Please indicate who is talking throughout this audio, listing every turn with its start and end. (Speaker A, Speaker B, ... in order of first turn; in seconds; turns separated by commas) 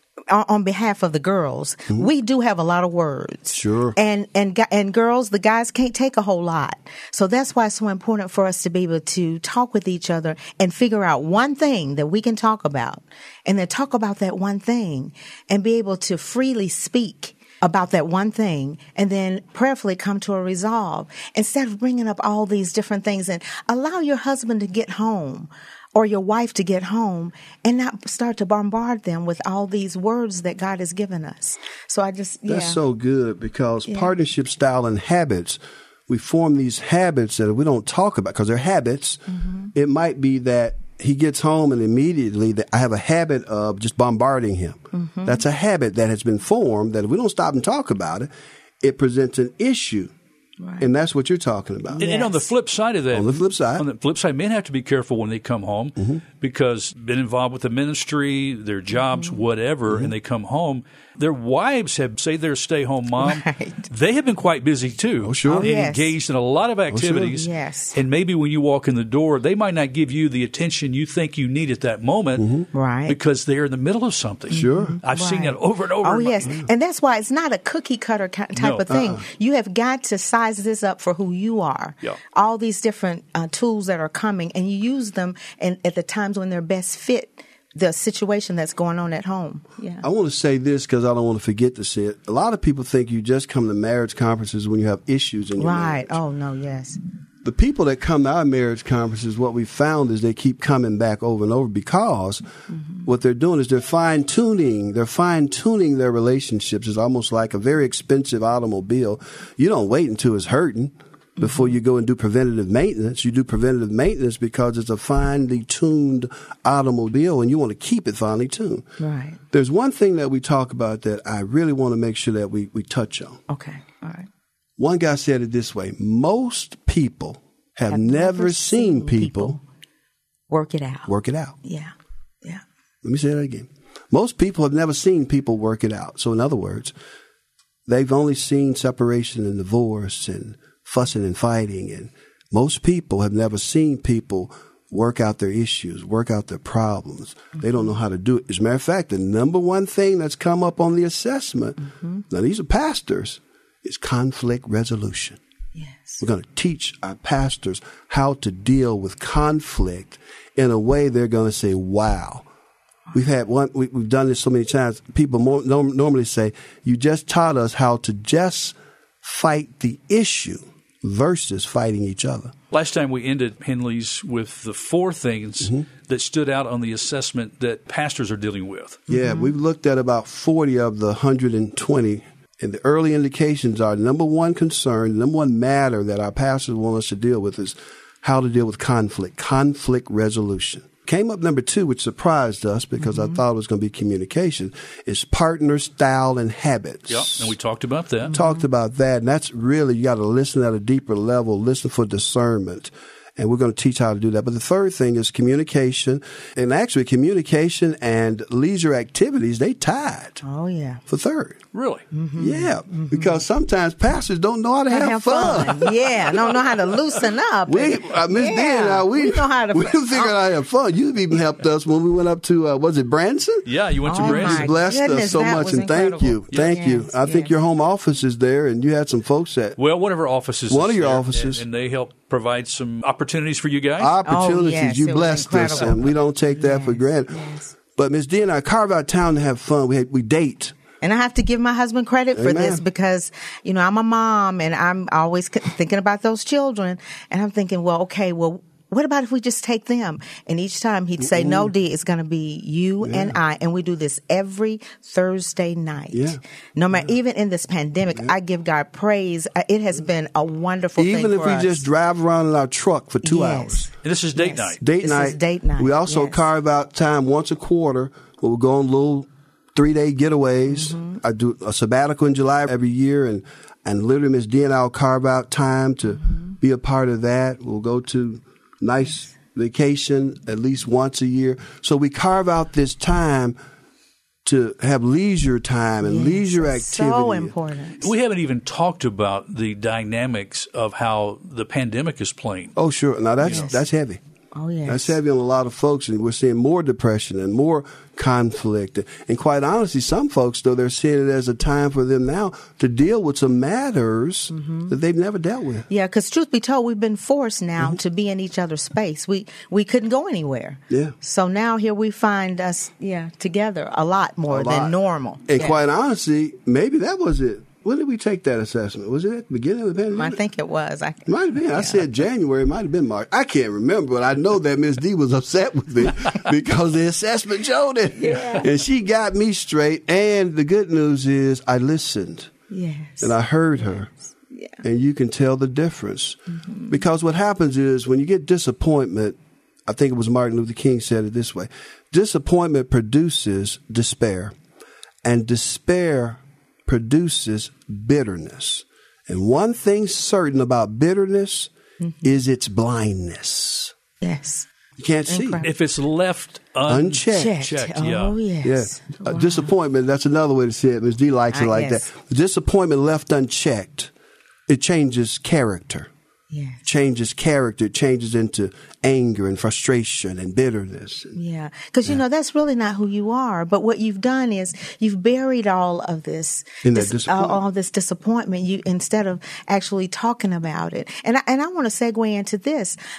Speaker A: 0.3-32.8, Speaker B: 3.5-4.0, Speaker B: 32.5-39.2, Speaker A: 39.3-39.7, Speaker B: 39.7-48.3, Speaker A: 44.9-45.4, Speaker B: 48.8-50.1, Speaker A: 50.6-50.9, Speaker B: 50.8-52.2, Speaker A: 51.9-52.5, Speaker C: 52.0-72.5, Speaker B: 53.1-53.8, Speaker A: 63.2-63.9, Speaker B: 65.2-65.7, Speaker A: 65.5-66.1, Speaker B: 66.9-67.3, Speaker A: 67.3-68.0, Speaker B: 72.4-72.7, Speaker A: 72.7-73.2, Speaker C: 73.0-76.6, Speaker B: 74.5-75.0, Speaker A: 74.5-90.0, Speaker C: 78.6-78.8, Speaker B: 78.9-79.2, Speaker B: 90.0-96.2, Speaker A: 95.6-97.0, Speaker B: 97.4-102.4, Speaker A: 102.7-103.0, Speaker B: 103.0-118.9, Speaker A: 111.4-111.7, Speaker A: 119.0-119.4, Speaker B: 119.5-123.4, Speaker A: 123.5-124.3, Speaker B: 124.8-129.6, Speaker A: 127.9-129.6, Speaker A: 130.5-131.1, Speaker B: 131.1-131.6, Speaker A: 131.6-131.9, Speaker B: 133.0-136.9, Speaker B: 137.9-155.4, Speaker A: 155.8-156.2, Speaker B: 156.2-162.4, Speaker B: 163.1-172.5, Speaker C: 172.7-179.0, Speaker A: 179.1-179.5, Speaker B: 179.1-197.5, Speaker A: 193.1-193.4, Speaker C: 197.1-198.3, Speaker A: 198.3-198.6, Speaker B: 198.3-210.4, Speaker A: 210.4-211.0, Speaker B: 211.1-211.6, Speaker C: 211.7-212.0, Speaker A: 212.1-213.4, Speaker B: 212.4-216.7, Speaker A: 214.9-220.4, Speaker B: 217.7-229.8, Speaker C: 223.7-224.7, Speaker A: 224.1-227.5, Speaker C: 229.8-234.2, Speaker B: 230.7-231.6, Speaker B: 234.0-240.8, Speaker A: 234.2-237.7, Speaker A: 241.0-261.8, Speaker B: 242.3-242.8, Speaker B: 251.2-251.7, Speaker B: 253.0-253.4, Speaker B: 256.1-256.4, Speaker B: 261.0-263.9, Speaker A: 263.2-266.4, Speaker C: 264.0-264.8, Speaker B: 264.8-283.6, Speaker A: 270.7-271.2, Speaker B: 284.4-287.5, Speaker A: 286.0-288.1, Speaker C: 288.0-292.8, Speaker B: 292.8-294.2, Speaker A: 294.5-295.1, Speaker B: 294.9-305.9, Speaker A: 304.5-304.9, Speaker A: 305.9-315.8, Speaker B: 314.5-320.4, Speaker A: 320.1-322.0, Speaker B: 321.3-332.5, Speaker A: 328.1-328.7, Speaker A: 332.7-333.3, Speaker B: 333.2-334.1, Speaker A: 334.5-334.8, Speaker B: 334.8-344.5, Speaker A: 336.7-336.9, Speaker B: 345.2-353.9, Speaker A: 352.0-352.3, Speaker A: 354.2-354.7, Speaker B: 355.0-355.6, Speaker A: 355.3-355.7, Speaker C: 355.6-358.3, Speaker B: 356.9-357.6, Speaker A: 357.3-359.7, Speaker B: 358.6-364.1, Speaker A: 361.5-362.0, Speaker B: 364.7-366.1, Speaker A: 366.5-366.8, Speaker B: 366.8-371.4, Speaker A: 371.3-383.0, Speaker B: 376.8-377.6